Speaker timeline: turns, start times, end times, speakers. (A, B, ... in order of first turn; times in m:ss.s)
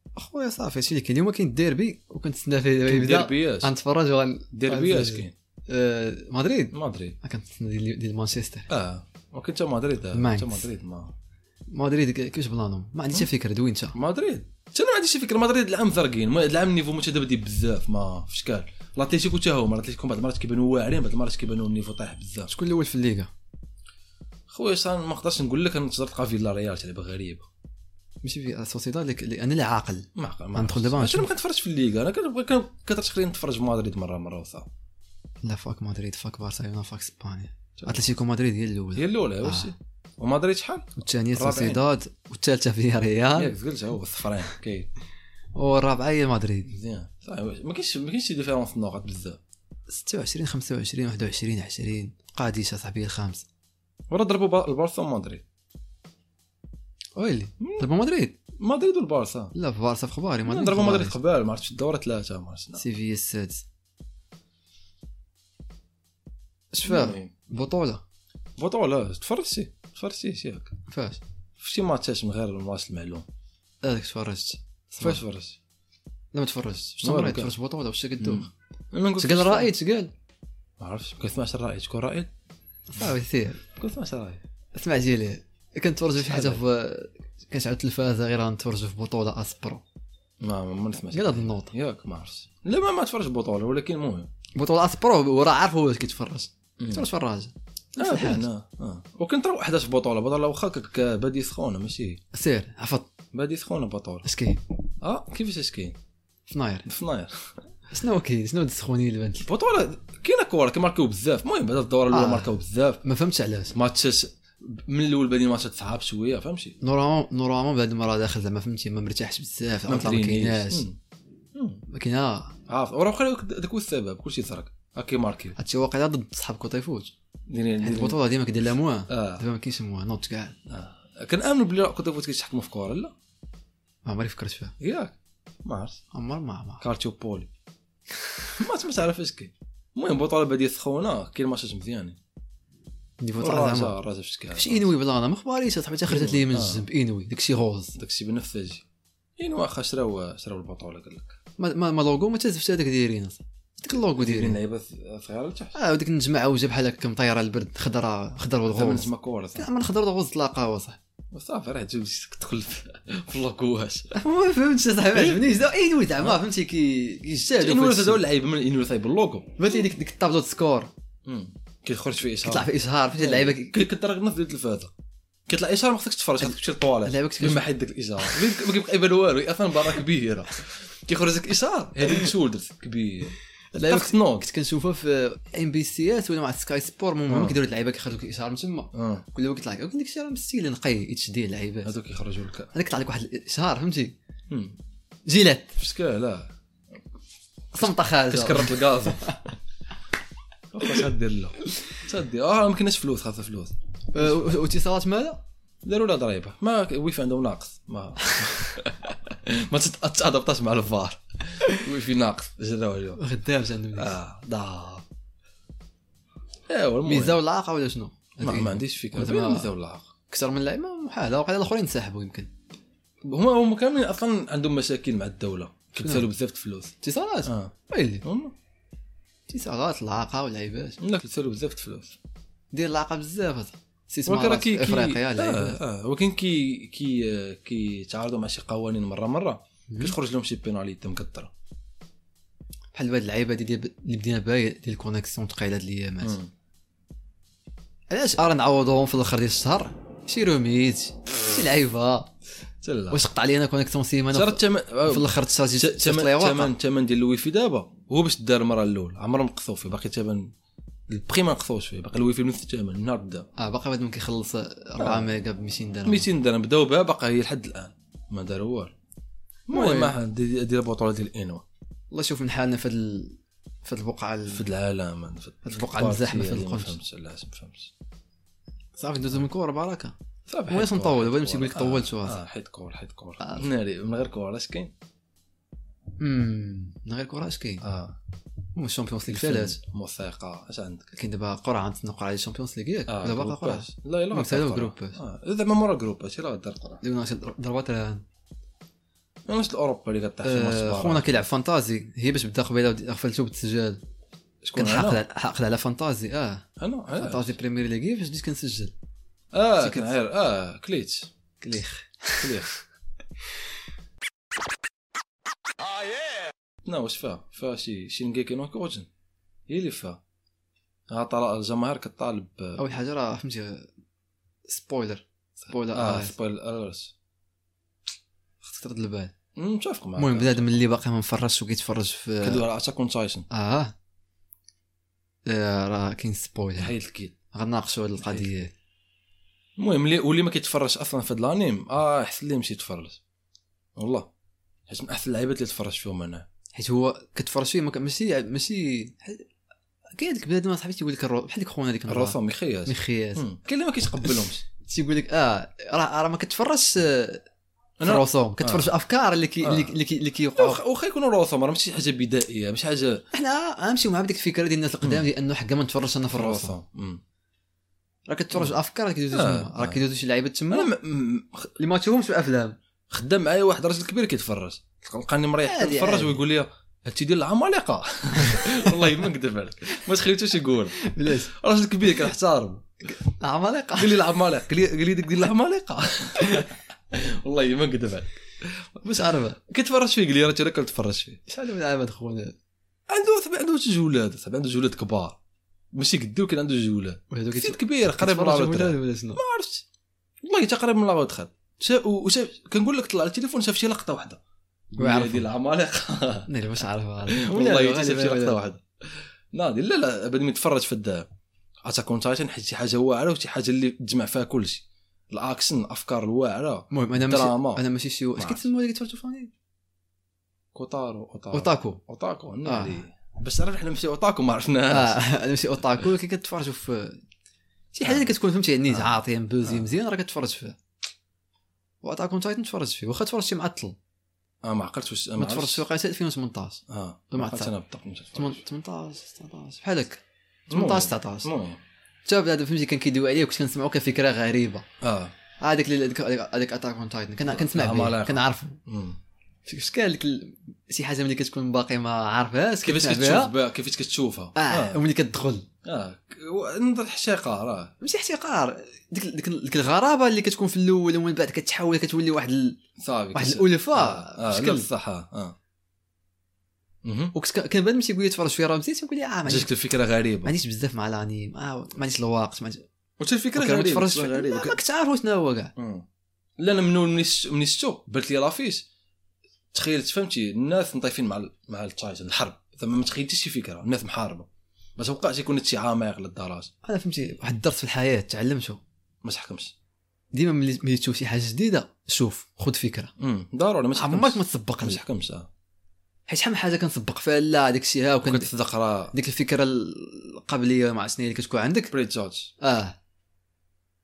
0:00.1-0:08.7 A
0:02.8-0:03.7 B
0:04.5-0:05.3 B
0:06.7-0:07.2 B
0:08.7-0:11.1 B
0:10.1-0:10.7 A
0:11.7-0:14.0 A
0:13.9-0:22.5 B
0:22.5-0:23.3 A
0:24.5-0:27.5 B
0:28.2-0:31.3 A
0:30.2-0:34.7 B
0:35.4-0:39.7 A
0:37.8-0:38.0 B
0:39.0-0:41.8 B
0:41.0-0:43.6 A
0:43.4-0:44.9 B
0:45.5-0:46.7 A
0:46.7-0:49.4 B
0:49.9-0:53.4 A
0:54.1-0:55.4 B
0:57.1-0:58.4 A
0:57.6-0:57.9 B
0:58.6-0:59.5 B
0:59.5-1:01.1 A
1:00.4-1:02.8 B
1:02.8-1:03.6 A
1:06.7-1:08.0 A
1:06.8-1:07.3 B
1:08.6-1:10.7 B
1:10.9-1:11.2 A
1:11.6-1:13.3 B
1:13.8-1:15.2 A
1:15.0-1:15.6 B
1:16.3-1:18.5 A
1:17.0-1:17.5 B
1:18.2-1:19.7 B
1:19.2-1:20.1 A
1:20.8-1:22.3 B
1:22.9-1:23.6 A
1:23.8-1:24.4 B
1:24.7-1:29.8 A
1:26.2-1:26.6 B
1:30.4-1:34.3 B
1:31.1-1:31.7 A
1:34.6-1:38.5 A
1:36.8-1:37.0 B
1:38.0-1:42.2 B
1:42.3-1:43.1 A
1:43.3-1:44.3 B
1:44.2-1:44.6 A
1:45.0-1:46.0 B
1:46.5-1:46.9 A
1:46.9-1:47.5 B
1:47.9-1:49.5 A
1:49.4-1:53.0 B
1:52.1-1:53.8 A
1:53.7-1:56.8 B
1:56.8-2:00.9 A
1:59.9-2:01.0 B
2:01.6-2:01.8 B
2:01.9-2:02.6 A
2:02.7-2:05.6 B
2:05.6-2:07.1 A
2:07.5-2:08.2 B
2:07.8-2:10.6 A
2:09.1-2:09.4 B
2:10.7-2:13.1 B
2:14.0-2:14.7 A
2:14.8-2:16.0 B
2:16.1-2:16.8 A
2:16.8-2:17.5 B
2:18.5-2:22.2 B
2:23.2-2:24.0 A
2:23.4-2:24.9 B
2:24.6-2:28.0 A
2:26.1-2:26.9 B
2:28.0-2:28.8 B
2:29.4-2:31.4 B
2:31.6-2:34.6 A
2:34.2-2:35.8 B
2:35.8-2:41.0 A
2:38.7-2:39.7 B
2:41.3-2:44.1 B
2:44.1-2:48.2 A
2:45.1-2:45.4 B
2:47.5-2:49.8 B
2:49.6-2:50.9 A
2:51.3-2:54.9 B
2:52.4-2:53.9 A
2:55.5-3:04.5 B
2:57.0-2:57.7 A
3:03.7-3:11.9 A
3:07.3-3:07.6 B
3:08.9-3:09.2 B
3:11.8-3:12.7 B
3:12.7-3:14.2 A
3:14.5-3:14.8 B
3:15.3-3:15.7 A
3:15.8-3:16.5 B
3:17.7-3:19.4 A
3:17.8-3:19.5 B
3:20.7-3:23.8 B
3:24.1-3:25.4 A
3:25.8-3:33.2 B
3:33.2-3:34.2 A
3:33.9-3:35.0 B
3:36.7-3:37.4 B
3:37.1-3:39.7 A
3:38.4-3:40.1 B
3:40.3-3:42.5 A
3:43.2-3:48.5 B
3:46.0-3:46.2 A
3:47.0-3:48.2 A
3:49.5-3:51.0 A
3:51.0-3:52.2 B
3:52.7-3:55.8 A
3:54.3-4:01.5 B
3:59.9-4:00.1 A
4:02.9-4:06.4 A
4:06.2-4:06.5 B
4:08.1-4:12.3 A
4:12.8-4:13.2 B
4:13.1-4:16.7 A
4:14.3-4:20.5 B
4:21.1-4:23.5 B
4:23.6-4:26.3 A
4:26.0-4:28.9 B
4:29.7-4:31.6 B
4:29.7-4:30.1 A
4:32.1-4:34.7 A
4:34.5-4:37.9 B
4:35.6-4:37.0 A
4:39.0-4:40.1 A
4:40.5-4:44.9 B
4:40.7-4:42.4 A
4:43.4-4:43.7 A
4:46.2-4:47.8 A
4:47.8-4:48.2 B
4:48.8-4:49.8 A
4:49.3-4:51.1 B
4:51.1-4:55.2 A
4:53.1-4:57.0 B
4:57.0-4:58.2 A
4:59.5-5:01.5 B
5:00.4-5:04.0 A
5:04.6-5:05.2 B
5:04.8-5:06.6 A
5:06.8-5:07.5 B
5:07.2-5:08.9 A
5:09.5-5:11.3 B
5:09.8-5:10.1 A
5:11.6-5:12.7 A
5:12.4-5:12.7 B
5:16.9-5:19.1 B
5:19.7-5:20.2 B
5:21.1-5:22.8 B
5:22.8-5:23.9 A
5:24.7-5:26.3 A
5:25.9-5:27.1 B
5:28.6-5:29.3 A
5:29.6-5:30.8 B
5:30.2-5:32.6 A
5:32.4-5:33.5 B
5:33.5-5:34.0 A
5:35.4-5:36.9 A
5:36.8-5:37.4 B
5:37.5-5:38.7 A
5:38.2-5:38.5 B
5:39.8-5:43.2 B
5:44.0-5:44.3 B
5:44.9-5:46.5 B
5:46.7-5:49.5 A
5:50.1-5:53.4 A
5:52.1-5:54.6 B
5:54.2-5:57.4 A
5:58.0-5:58.9 B
5:58.0-6:00.8 A
5:59.6-5:59.9 B
6:00.6-6:03.2 B
6:03.3-6:06.7 A
6:06.3-6:07.2 B
6:08.3-6:10.9 A
6:09.3-6:10.0 B
6:10.7-6:11.8 B
6:11.8-6:12.8 A
6:13.1-6:23.1 B
6:15.6-6:16.4 A
6:18.4-6:19.1 A
6:21.0-6:21.5 A
6:23.1-6:24.4 A
6:24.0-6:31.4 B
6:29.1-6:29.6 A
6:31.5-6:32.6 A
6:33.1-6:35.4 B
6:35.9-6:39.8 B
6:37.3-6:39.4 A
6:40.4-6:44.4 B
6:44.9-6:46.5 B
6:45.0-6:45.5 A
6:46.5-6:48.6 A
6:47.3-6:48.8 B
6:49.5-6:51.3 B
6:51.8-6:57.8 B
6:56.9-6:59.5 A
6:58.4-6:58.7 B
7:00.7-7:05.2 B
7:01.5-7:02.0 A
7:02.6-7:03.0 A
7:04.9-7:07.2 A
7:07.9-7:10.8 A
7:08.0-7:08.3 B
7:08.9-7:09.9 B
7:12.0-7:14.0 A
7:14.6-7:15.8 B
7:15.4-7:16.8 A
7:16.9-7:18.6 B
7:17.3-7:17.7 A
7:18.4-7:21.5 A
7:20.7-7:21.8 B
7:22.3-7:24.9 A
7:25.0-7:25.3 B
7:25.6-7:28.8 A
7:27.5-7:29.2 B
7:29.6-7:33.6 A
7:32.8-7:35.0 B
7:34.6-7:35.7 A
7:35.8-7:38.0 B
7:38.0-7:42.8 A
7:43.0-7:45.6 B
7:43.3-7:44.9 A
7:47.0-7:47.4 B
7:47.3-7:49.7 A
7:49.5-7:50.5 B
7:50.4-7:52.8 A
7:53.2-7:54.8 B
7:53.6-7:55.7 A
7:55.8-7:56.1 B
7:56.6-7:58.9 B
7:59.7-8:06.7 B
8:06.8-8:08.8 A
8:09.2-8:09.7 B
8:10.3-8:13.1 A
8:13.2-8:15.5 B
8:14.0-8:15.0 A
8:16.3-8:18.5 A
8:18.2-8:19.1 B
8:19.1-8:21.9 A
8:21.9-8:22.5 B
8:22.6-8:23.0 A